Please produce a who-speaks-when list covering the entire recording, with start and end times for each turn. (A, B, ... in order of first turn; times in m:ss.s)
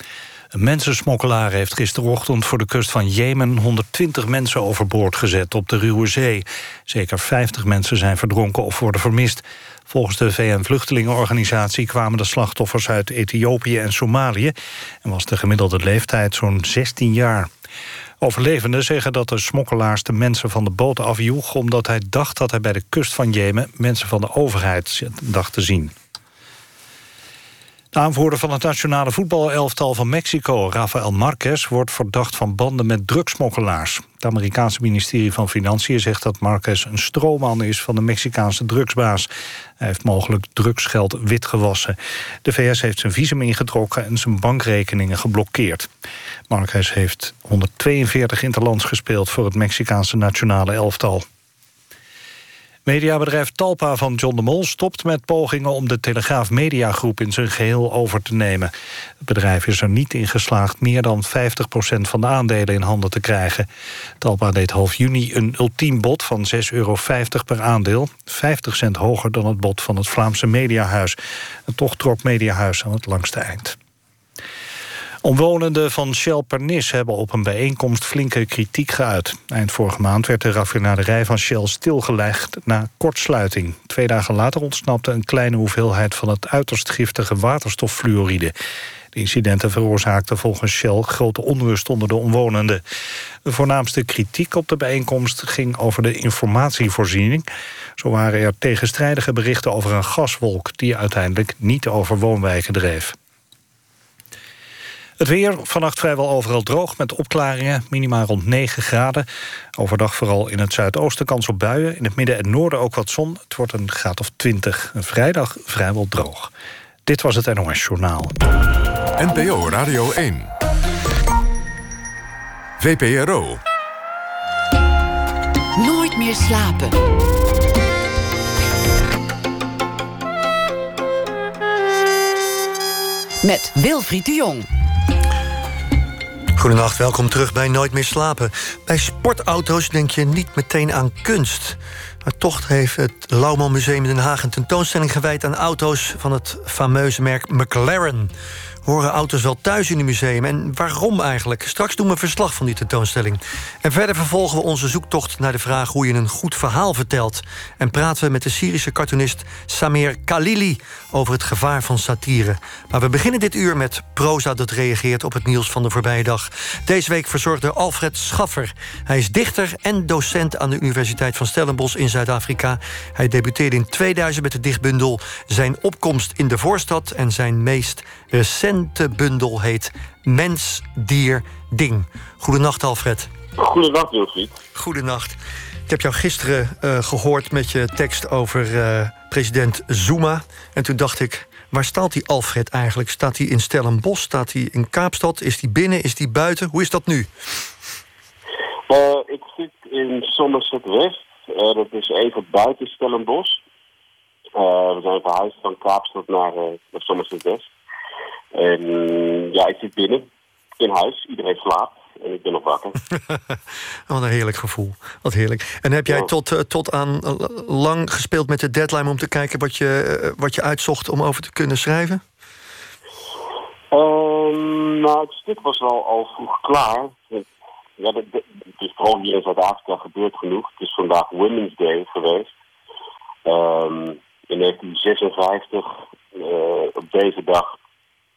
0:00.5-0:17.5 A
0:18.2-0:25.9 A
0:27.9-0:39.3 A
0:39.8-0:45.9 A
0:46.5-0:51.2 A
0:52.8-1:03.7 A
1:04.2-1:13.8 A
1:15.2-1:28.5 A
1:29.1-1:32.8 A
1:33.4-1:37.4 A
1:38.0-1:43.1 A
1:45.2-1:56.5 A
1:57.0-1:58.3 A
1:59.2-2:00.5 B
2:02.8-2:03.6 B
2:05.8-2:07.0 C
2:13.4-2:14.7 C
2:16.5-2:28.3 D
2:28.8-3:03.3 D
3:03.6-3:04.6 E
3:04.7-3:17.3 D
3:18.9-3:23.6 E
3:24.6-3:27.7 E
3:28.5-3:30.3 E
3:30.8-3:32.9 E
3:33.2-3:42.2 D
3:43.9-3:47.4 E
3:48.0-3:52.5 E
3:53.4-3:57.7 E